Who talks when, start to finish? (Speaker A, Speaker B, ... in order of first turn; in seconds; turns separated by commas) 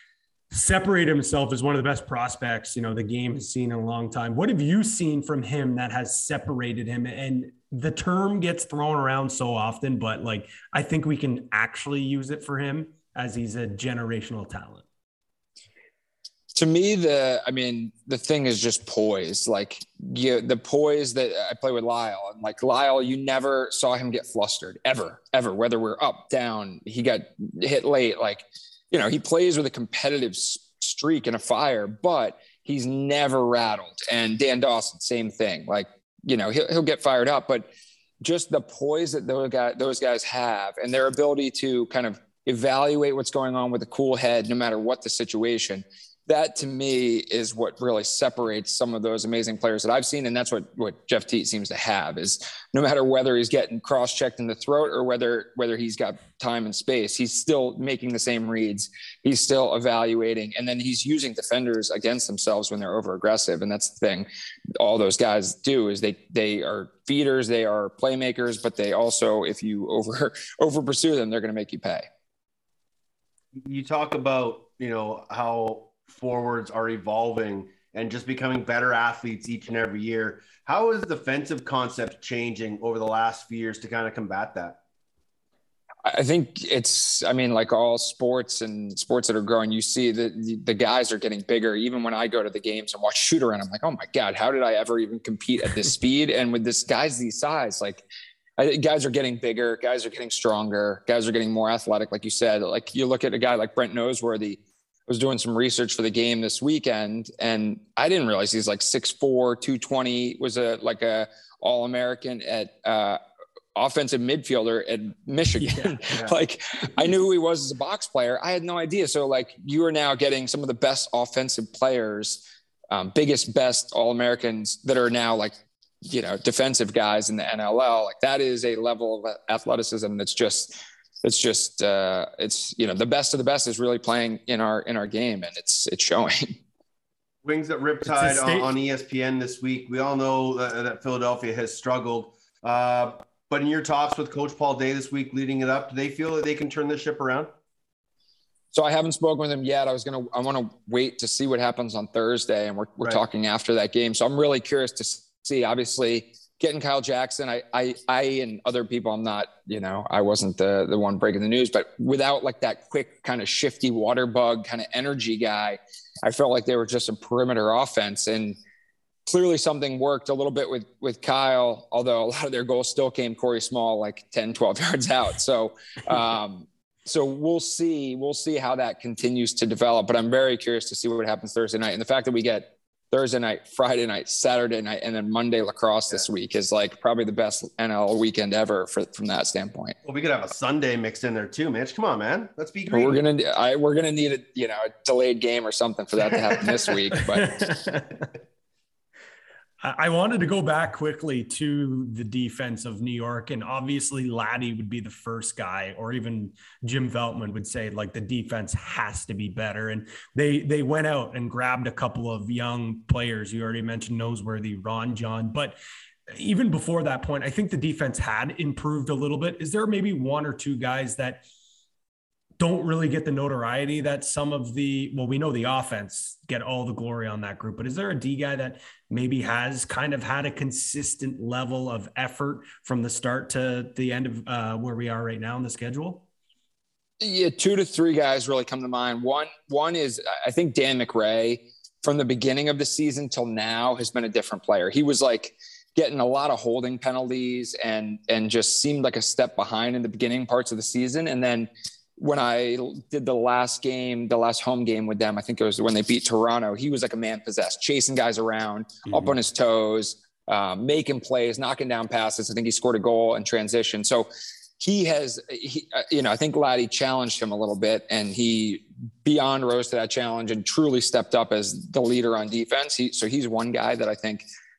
Speaker A: 0.5-14.8, Speaker B: 16.5-37.7, Speaker B: 38.2-64.3, Speaker B: 64.8-72.1, Speaker C: 73.7-84.8, Speaker B: 86.0-98.0, Speaker B: 98.6-113.2, Speaker B: 113.8-125.6, Speaker A: 115.6-116.3, Speaker B: 126.1-136.5, Speaker C: 137.4-147.5, Speaker A: 138.1-138.7, Speaker B: 148.7-168.6, Speaker B: 169.3-190.0, Speaker C: 190.0-193.2, Speaker B: 192.9-197.6, Speaker A: 197.2-198.3, Speaker A: 199.8-215.8, Speaker A: 216.3-221.4, Speaker A: 222.6-236.2, Speaker B: 237.2-264.3, Speaker B: 264.8-274.4